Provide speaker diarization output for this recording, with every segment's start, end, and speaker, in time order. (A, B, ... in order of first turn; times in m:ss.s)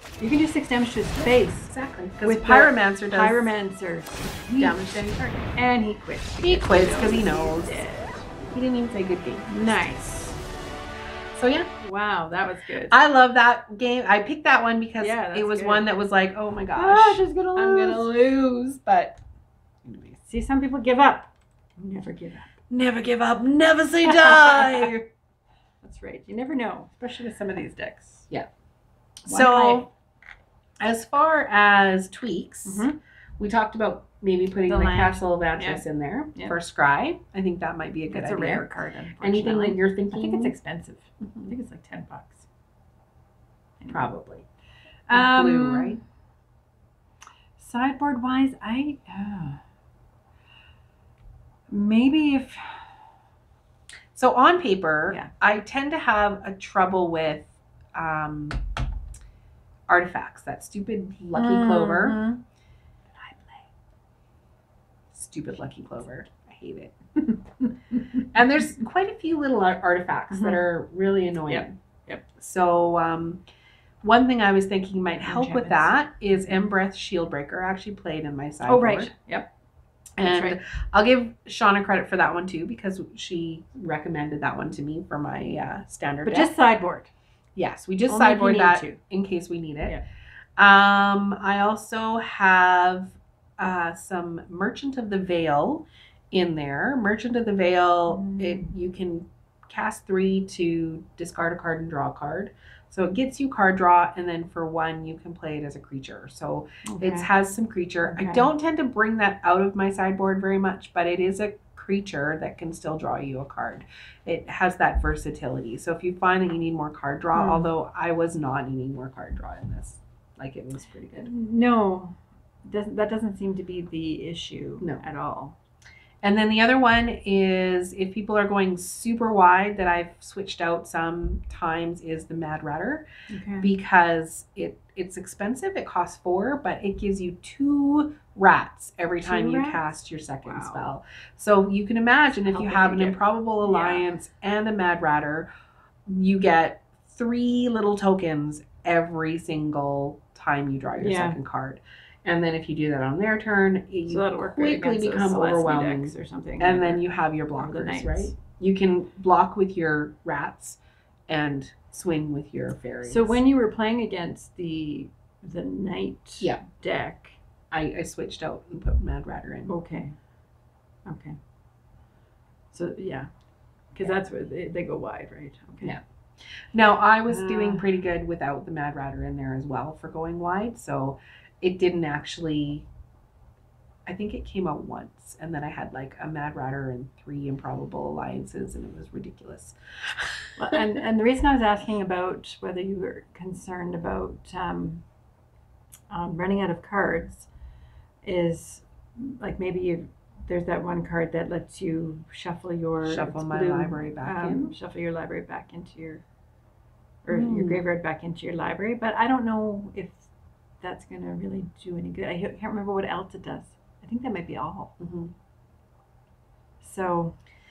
0:00.2-0:04.8 A
0:01.6-0:03.5 B
0:04.6-0:05.5 B
0:05.6-0:08.3 A
0:06.4-0:10.0 B
0:09.5-0:10.4 A
0:11.4-0:11.7 B
0:11.8-0:13.0 A
0:12.9-0:19.2 B
0:15.0-0:15.9 A
0:16.8-0:18.1 A
0:19.8-0:20.2 B
0:20.2-0:22.6 A
0:22.7-0:25.1 B
0:24.0-0:24.9 A
0:25.8-0:28.3 A
0:29.3-0:29.9 A
0:29.3-0:29.9 B
0:30.8-0:38.7 B
0:32.7-0:33.0 A
0:34.7-0:35.8 A
0:38.1-0:42.4 A
0:39.2-0:40.6 B
0:43.8-0:44.1 A
0:43.9-0:44.5 B
0:45.1-0:46.0 A
0:45.1-0:46.0 B
0:47.6-0:49.6 A
0:51.7-0:53.0 A
0:54.2-0:58.6 B
0:59.9-1:02.2 B
1:01.4-1:02.4 A
1:03.2-1:03.6 A
1:05.1-1:06.9 B
1:07.3-1:08.2 A
1:08.3-1:11.7 B
1:10.3-1:10.6 A
1:11.5-1:12.2 A
1:12.4-1:13.4 B
1:14.0-1:19.1 B
1:15.2-1:16.0 A
1:18.7-1:19.5 A
1:20.2-1:26.5 B
1:20.2-1:20.6 A
1:26.2-1:27.1 A
1:27.6-1:30.0 B
1:28.1-1:29.0 A
1:30.6-2:01.3 B
1:38.1-1:38.7 A
1:46.8-1:47.3 A
1:48.0-1:48.5 A
1:57.3-1:57.7 A
2:01.2-2:05.6 A
2:06.2-2:13.1 B
2:13.3-2:13.7 A
2:13.6-2:25.5 B
2:19.2-2:19.8 A
2:20.4-2:20.9 A
2:22.4-2:24.1 A
2:26.1-2:43.4 B
2:31.0-2:31.4 A
2:34.1-2:37.0 A
2:37.6-2:38.4 A
2:43.0-2:47.4 A
2:47.7-2:49.7 B
2:49.7-2:50.2 A
2:51.1-2:51.4 A
2:52.7-2:53.3 A
2:53.9-2:56.0 A
2:55.8-3:02.9 B
2:57.3-2:57.9 A
3:04.1-3:10.4 B
3:10.6-3:15.0 A
3:16.1-3:17.5 A
3:18.2-3:26.2 A
3:23.0-3:24.8 B
3:27.2-3:30.3 A
3:27.3-3:27.8 B
3:30.8-3:34.9 A
3:35.0-3:35.3 B
3:36.8-3:37.4 A